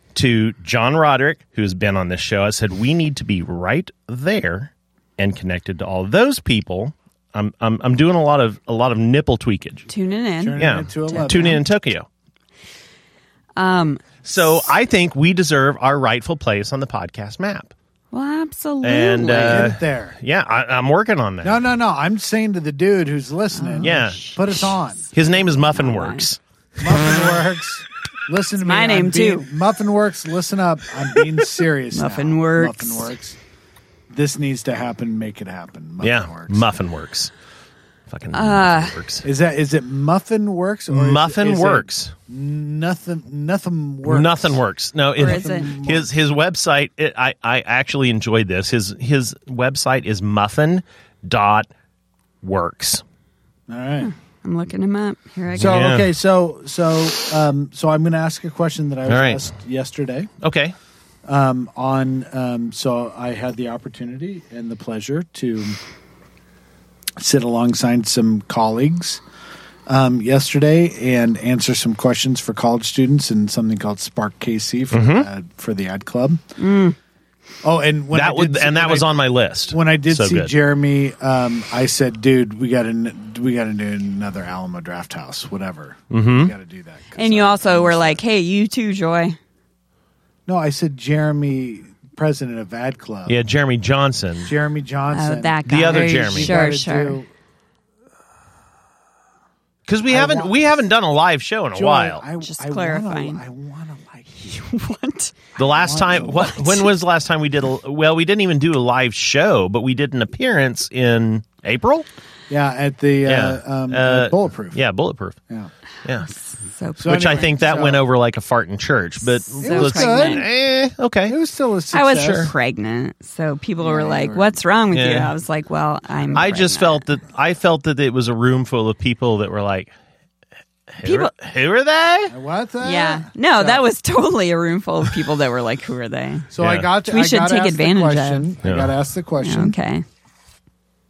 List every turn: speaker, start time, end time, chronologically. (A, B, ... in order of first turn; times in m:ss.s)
0:00.1-0:09.9 A
0:09.9-0:11.6 B
0:10.4-0:11.6 C
0:10.6-0:12.0 A
0:13.6-0:14.7 B
0:14.2-0:17.7 A
0:18.1-0:19.7 B
0:18.8-0:21.6 A
0:19.2-0:20.2 C
0:21.4-0:25.0 C
0:23.5-0:26.3 B
0:23.8-0:24.2 A
0:25.1-0:26.4 A
0:26.8-0:33.4 C
0:28.6-0:29.5 B
0:31.9-0:33.1 B
0:34.1-0:36.6 C
0:36.0-0:37.3 A
0:38.1-0:39.2 A
0:38.3-0:39.0 B
0:39.2-0:44.6 C
0:40.9-0:42.1 A
0:44.0-0:51.7 A
0:45.2-0:46.1 C
0:45.2-0:45.7 B
0:52.4-0:53.0 A
0:53.7-0:54.1 C
0:54.0-0:55.9 B
0:55.5-0:56.1 A
0:55.6-1:00.3 C
0:59.1-0:59.5 A
1:00.4-1:00.7 A
1:01.2-1:05.8 C
1:07.2-1:09.2 C
1:09.9-1:16.4 C
1:14.9-1:15.3 A
1:16.6-1:17.0 B
1:17.6-1:19.1 C
1:18.1-1:20.5 A
1:19.7-1:28.2 C
1:26.1-1:26.5 A
1:27.2-1:29.4 B
1:30.5-1:33.4 C
1:33.2-1:34.5 A
1:34.4-1:37.3 C
1:35.1-1:37.2 B
1:35.6-1:36.6 A
1:39.9-1:42.2 A
1:40.1-1:40.6 C
1:41.7-1:44.6 C
1:42.4-1:43.4 B
1:44.5-1:45.3 B
1:45.6-1:46.6 C
1:45.6-1:52.0 A
1:46.6-1:46.9 B
1:52.5-1:54.8 C
1:53.2-1:55.4 A
1:56.2-1:57.4 B
1:57.0-1:58.1 C
1:57.0-2:01.4 A
1:59.2-2:00.4 B
1:59.6-2:00.5 C
2:01.3-2:02.5 C
2:01.9-2:07.0 B
2:03.8-2:04.6 C
2:04.9-2:05.3 A
2:06.3-2:09.9 A
2:10.9-2:12.3 A
2:11.0-2:11.3 B
2:12.3-2:13.8 C
2:12.8-2:16.5 B
2:16.5-2:19.7 C
2:16.6-2:16.9 A
2:17.0-2:18.5 B
2:18.6-2:18.9 A
2:19.4-2:20.0 B